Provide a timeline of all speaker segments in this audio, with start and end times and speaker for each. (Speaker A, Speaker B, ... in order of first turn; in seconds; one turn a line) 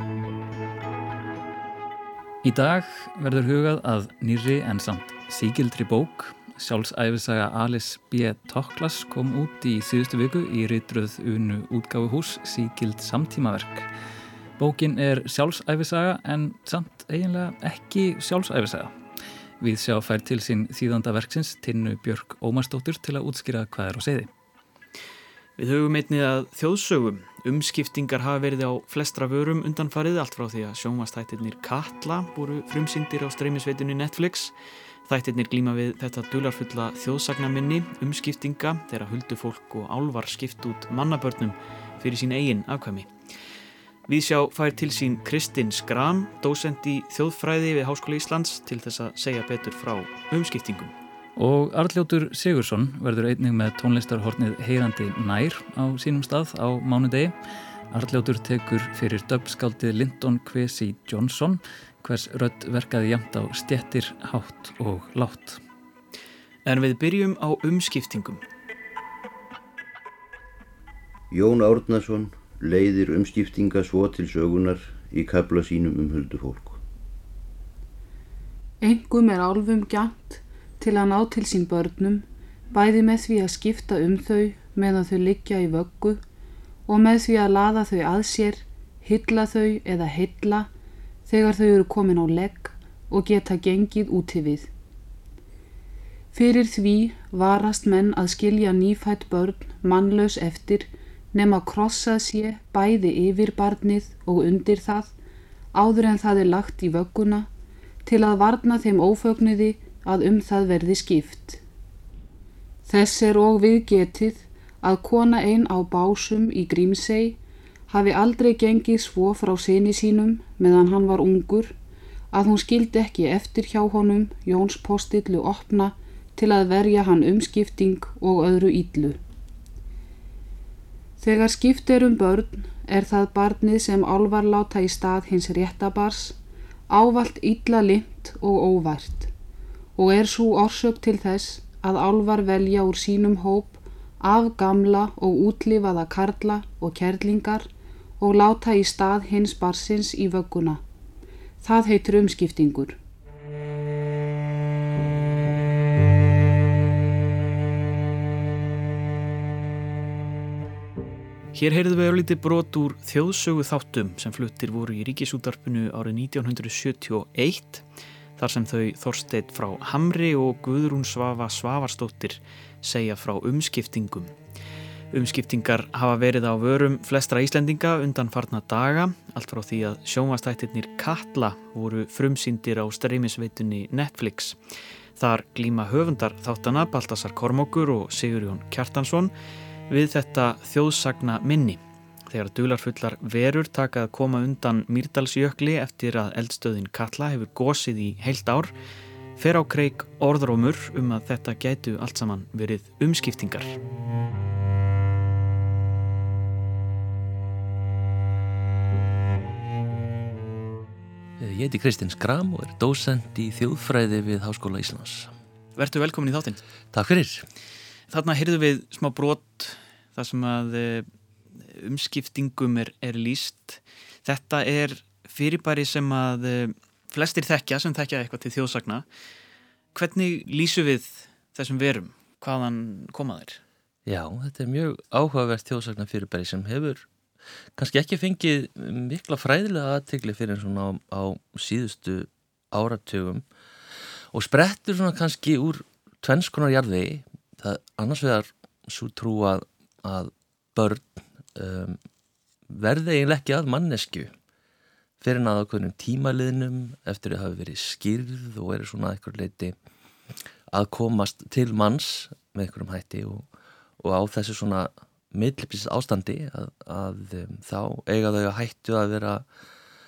Speaker A: 2.4-13.9
Speaker A: 14.6-18.9
Speaker A: 19.6-24.3
Speaker B: 25.6-34.5
Speaker B: 35.0-43.1
Speaker B: 44.1-50.9
Speaker A: 51.4-57.4
Speaker A: 57.9-65.6
Speaker B: 66.7-68.4
Speaker C: 71.3-76.8
Speaker D: 78.8-86.2
Speaker D: 86.9-90.7
Speaker D: 91.2-94.7
Speaker D: 96.3-105.1
Speaker D: 105.7-107.5
Speaker D: 108.0-111.6
Speaker D: 112.8-117.4
Speaker D: 117.9-121.7
Speaker D: 122.3-129.2
Speaker D: 131.2-136.4
Speaker D: 136.9-139.3
Speaker D: 139.9-147.7
Speaker D: 148.2-150.8
Speaker D: 151.6-153.0
Speaker B: 161.5-167.8
Speaker B: 168.4-174.3
Speaker B: 175.1-184.6
Speaker B: 185.2-189.3
Speaker B: 189.9-198.7
Speaker B: 199.4-203.8
Speaker E: 211.4-215.3
Speaker B: 215.8-216.6
Speaker E: 216.9-217.5
Speaker B: 218.1-229.1
Speaker B: 229.9-233.6
Speaker E: 234.1-237.1
Speaker E: 237.8-243.4
Speaker E: 244.3-252.0
Speaker E: 252.7-254.3
Speaker E: 255.2-259.8
Speaker E: 260.7-263.5
Speaker E: 264.0-269.4